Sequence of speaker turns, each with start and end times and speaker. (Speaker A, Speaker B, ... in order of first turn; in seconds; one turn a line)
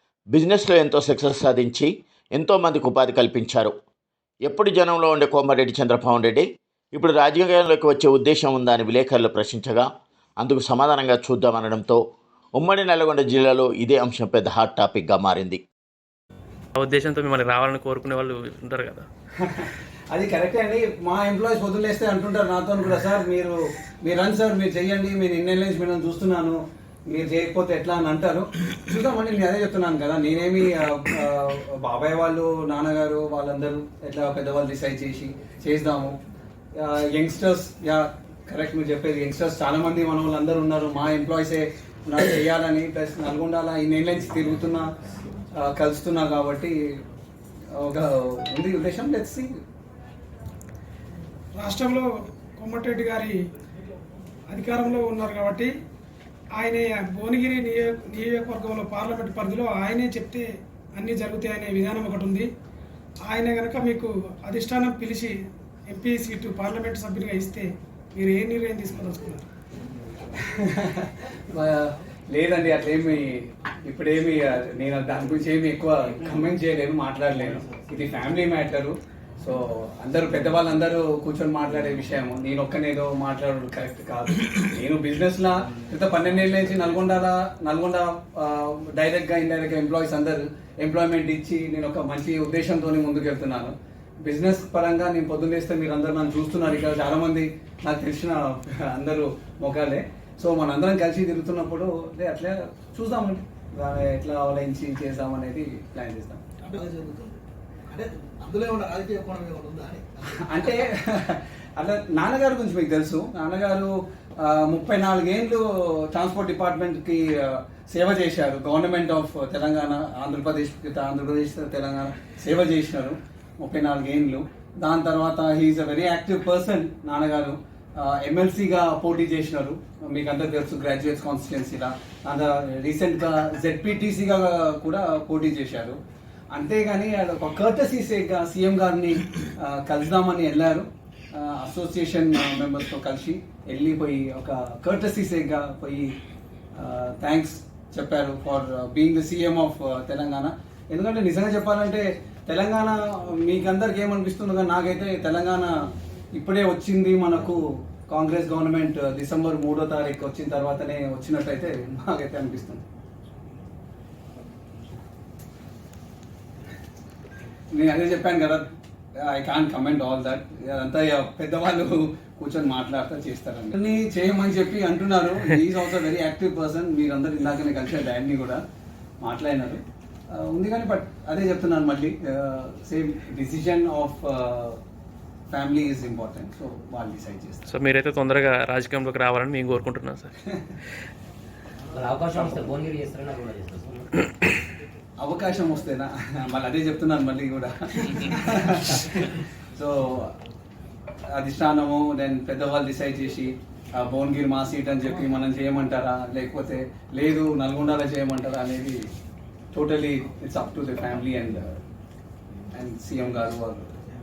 Speaker A: 0.3-3.7
Speaker A: 4.5-9.9
Speaker A: 10.4-12.0
Speaker A: 12.6-15.6
Speaker B: 16.8-19.1
Speaker C: 19.4-26.6
Speaker C: 27.1-36.1
Speaker C: 36.8-44.9
Speaker C: 45.6-46.8
Speaker C: 47.8-49.5
Speaker D: 51.5-53.4
Speaker D: 54.5-55.7
Speaker D: 56.5-62.5
Speaker D: 63.2-69.4
Speaker C: 70.5-106.4
Speaker E: 106.6-110.8
Speaker C: 110.5-136.0
Speaker C: 136.5-146.1
Speaker C: 146.8-155.8
Speaker C: 156.3-162.8
Speaker C: 167.7-168.7
Speaker C: 169.3-178.6
Speaker C: 179.2-184.8
Speaker C: 185.5-187.7
Speaker B: 187.7-190.3
Speaker F: 191.9-194.1
Speaker C: 192.3-192.6
Speaker C: 195.2-200.3
Speaker C: 201.3-209.0
Speaker C: 209.7-211.8
Speaker C: 212.7-213.9